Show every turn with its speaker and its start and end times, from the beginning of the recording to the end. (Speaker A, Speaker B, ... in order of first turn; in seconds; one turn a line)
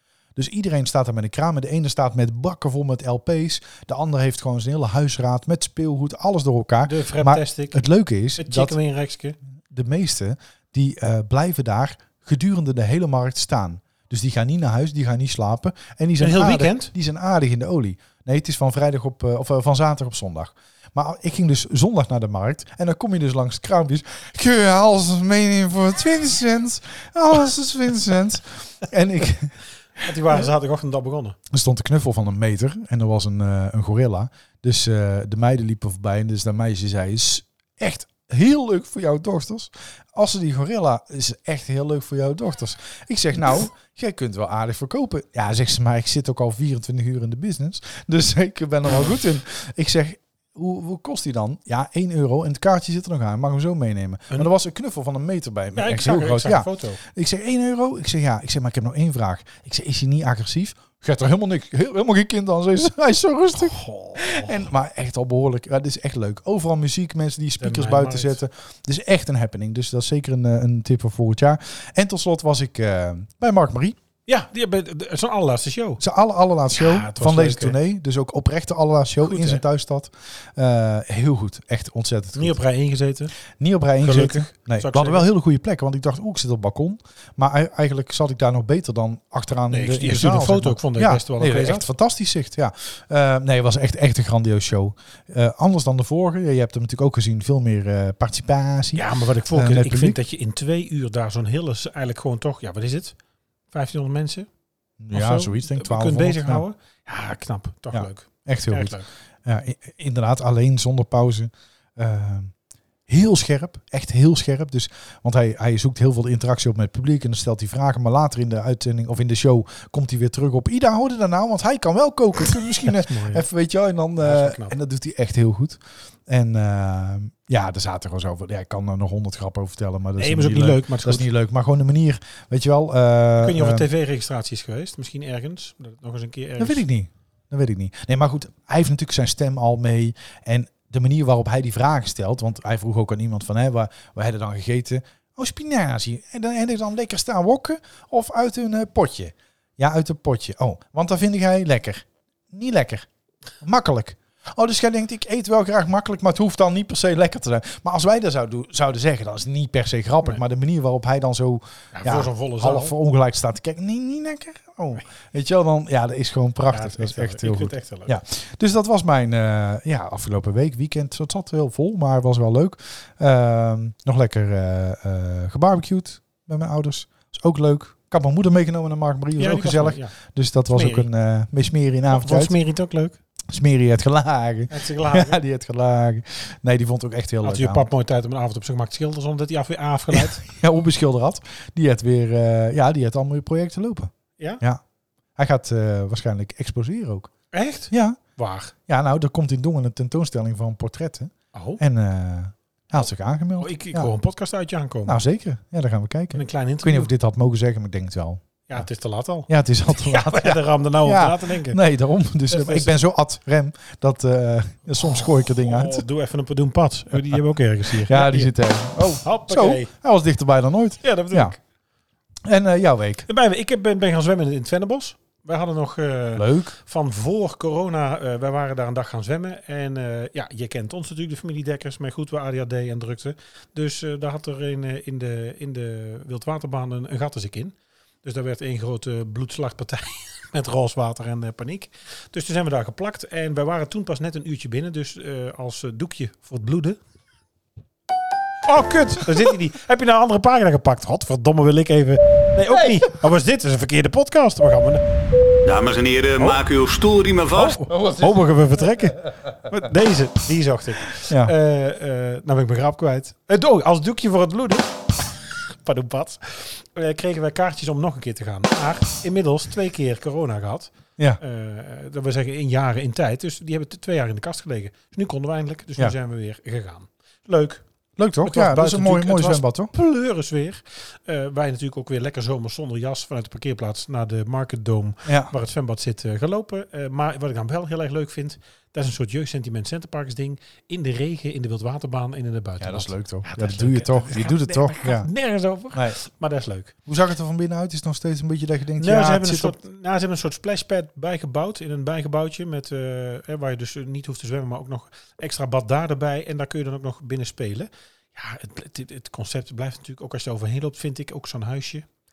Speaker A: 0.4-8.8
Speaker B: 6.8-7.8
Speaker B: 8.4-9.4
Speaker A: 9.7-29.6
Speaker B: 16.2-16.9
Speaker B: 30.0-31.4
Speaker A: 31.5-74.0
Speaker B: 55.8-57.0
Speaker B: 63.6-64.6
Speaker B: 67.6-68.4
Speaker B: 74.3-76.0
Speaker A: 76.0-82.5
Speaker B: 76.8-77.8
Speaker B: 79.2-79.6
Speaker B: 82.4-83.3
Speaker A: 83.6-100.2
Speaker B: 84.0-85.2
Speaker B: 89.7-91.9
Speaker B: 98.9-103.2
Speaker B: 103.7-104.5
Speaker A: 105.0-106.6
Speaker B: 105.1-109.1
Speaker A: 107.9-112.5
Speaker A: 113.1-133.9
Speaker B: 122.8-123.5
Speaker B: 124.2-124.8
Speaker B: 130.2-131.3
Speaker B: 133.4-136.8
Speaker A: 136.6-153.1
Speaker A: 153.6-182.6
Speaker B: 161.9-162.9
Speaker B: 166.7-168.2
Speaker B: 179.4-180.1
Speaker B: 180.7-181.1
Speaker B: 182.1-183.2
Speaker A: 183.5-187.9
Speaker B: 184.7-185.4
Speaker B: 187.4-190.4
Speaker A: 190.1-194.8
Speaker A: 195.4-197.3
Speaker B: 197.5-198.7
Speaker A: 197.9-198.2
Speaker A: 198.9-204.1
Speaker B: 201.5-201.8
Speaker B: 203.6-205.2
Speaker A: 205.1-208.8
Speaker B: 206.3-207.1
Speaker B: 208.7-211.8
Speaker A: 209.5-216.1
Speaker B: 212.5-212.9
Speaker B: 215.5-219.9
Speaker A: 218.0-221.6
Speaker B: 221.0-221.6
Speaker A: 222.4-223.3
Speaker B: 223.3-247.0
Speaker A: 226.3-226.8
Speaker B: 248.7-255.0
Speaker C: 255.7-257.8
Speaker B: 257.5-264.9
Speaker A: 261.3-261.5
Speaker B: 265.7-277.8
Speaker A: 278.2-279.9
Speaker B: 278.4-296.9
Speaker A: 285.3-285.5
Speaker A: 292.8-295.3
Speaker A: 295.9-296.2
Speaker A: 297.1-299.8
Speaker B: 299.0-312.1